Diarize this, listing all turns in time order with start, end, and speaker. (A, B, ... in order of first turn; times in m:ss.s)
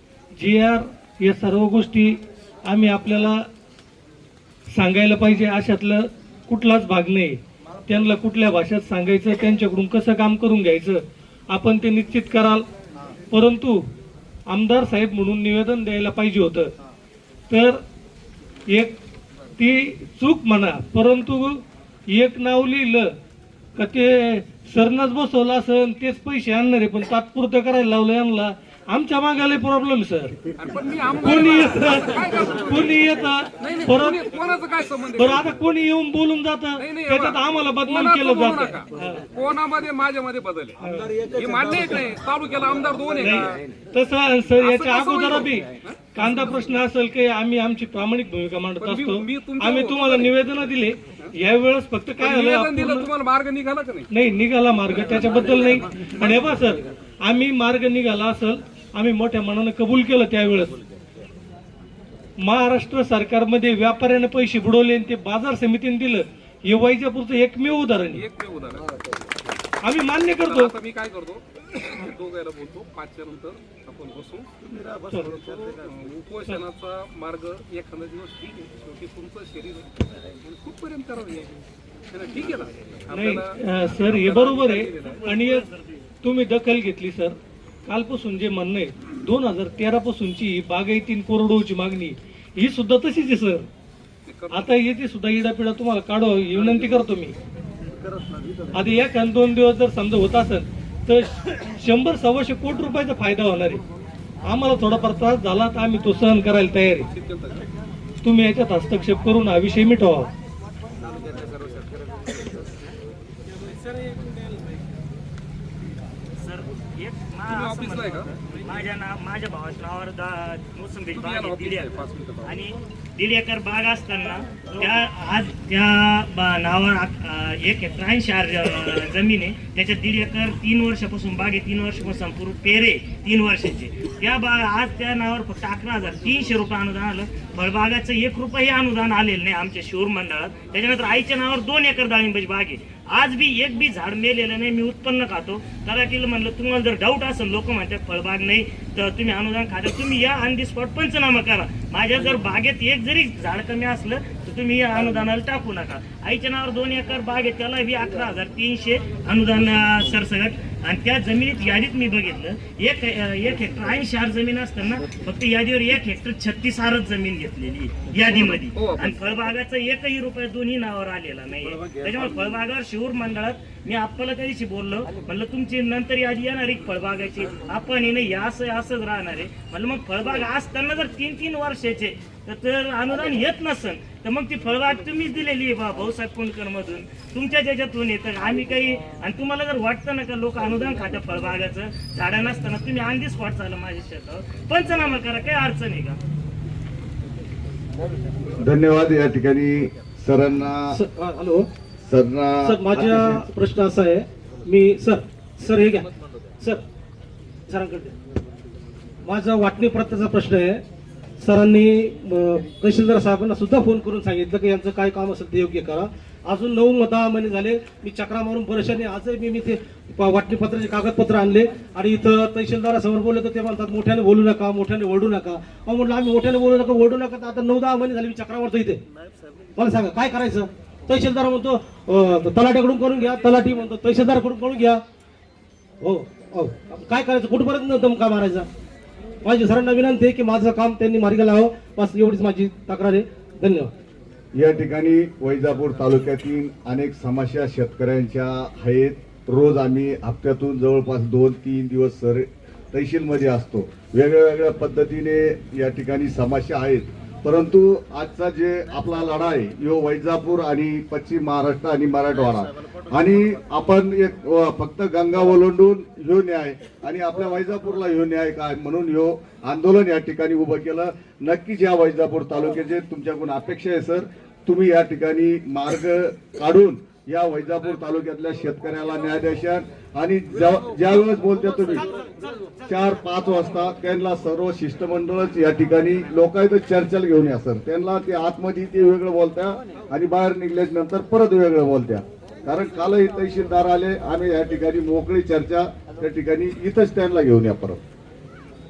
0:00.3-0:03.5 A
0:04.7-0:12.6 A
0:13.3-0:13.8 A
0:14.5-0:16.7 A
0:17.5-0:17.8 A
0:18.7-0:19.0 A
0:19.6-0:23.1 A
0:23.8-0:30.4 A
0:30.6-0:33.1 B
0:31.2-0:34.2 A
0:33.6-0:35.5 B
0:35.2-0:39.2 A
0:36.8-0:43.6 B
0:40.8-0:41.1 A
0:43.2-0:53.1 A
0:44.6-0:46.6 B
0:48.8-0:50.4 B
0:52.2-0:54.1 B
0:54.1-1:00.7 A
1:02.4-1:08.2 A
1:08.1-1:08.9 B
1:09.8-1:10.7 A
1:10.2-1:14.5 B
1:15.0-1:15.3 A
1:15.1-1:19.9 B
1:20.4-1:25.4 B
1:23.1-1:25.7 A
1:26.2-1:33.7 A
1:34.3-1:34.8 B
1:34.5-1:37.4 A
1:38.7-1:43.8 A
1:44.5-1:47.1 A
1:47.1-1:47.6 B
1:48.2-1:50.3 A
1:56.4-3:16.2 C
1:57.5-1:58.3 B
2:01.1-2:02.5 B
2:48.3-2:49.2 B
3:18.6-3:21.0 D
3:20.9-3:21.7 E
3:22.1-3:23.5 D
3:22.6-3:26.1 E
3:27.7-3:28.1 E
3:29.2-3:30.8 E
3:31.4-3:49.0 E
3:49.8-3:55.0 E
3:56.0-3:58.7 E
3:59.4-4:03.9 E
4:04.5-4:42.2 D
4:42.8-4:58.0 D